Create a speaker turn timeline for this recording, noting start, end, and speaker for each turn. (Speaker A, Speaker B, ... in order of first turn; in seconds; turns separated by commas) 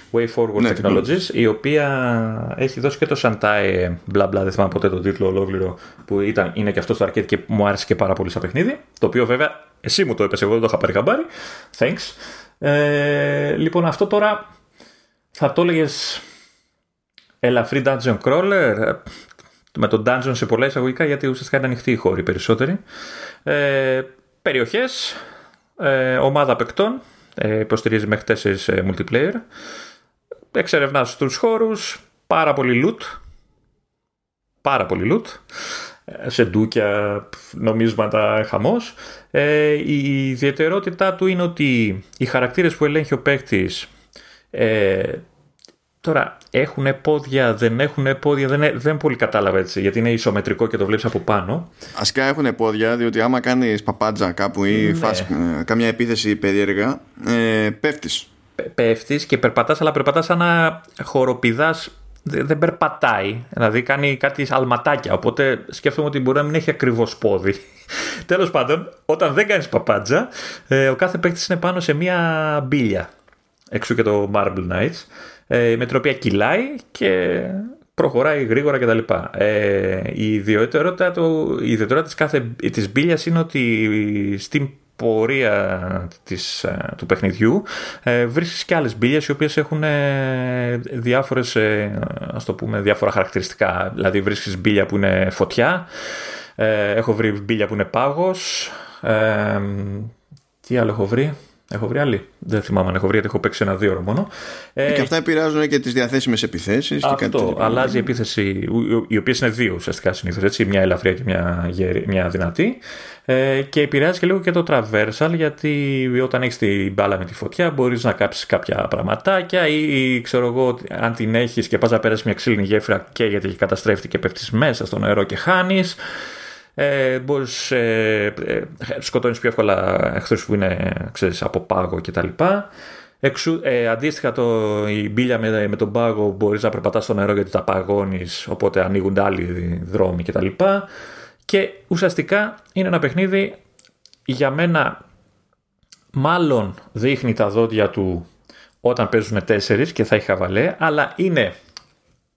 Speaker A: 0.1-14.5, Speaker B: 0.6-1.1, Speaker A: 15.3-16.2, Speaker A: 17.4-19.1, Speaker A: 19.7-22.8, Speaker A: 23.5-25.2, Speaker A: 25.8-29.4, Speaker A: 30.5-33.2, Speaker A: 34.6-35.4, Speaker A: 36.1-43.9, Speaker A: 44.5-45.2, Speaker A: 46.0-51.7, Speaker B: 52.0-58.3, Speaker A: 54.7-55.3, Speaker A: 58.6-73.1, Speaker A: 73.7-95.9, Speaker A: 96.6-100.1, Speaker A: 100.6-105.1, Speaker B: 104.9-108.1, Speaker A: 107.0-126.0, Speaker A: 126.8-132.7, Speaker A: 133.2-140.9, Speaker A: 141.5-143.6, Speaker A: 144.3-145.0, Speaker A: 146.2-148.3, Speaker A: 148.8-151.6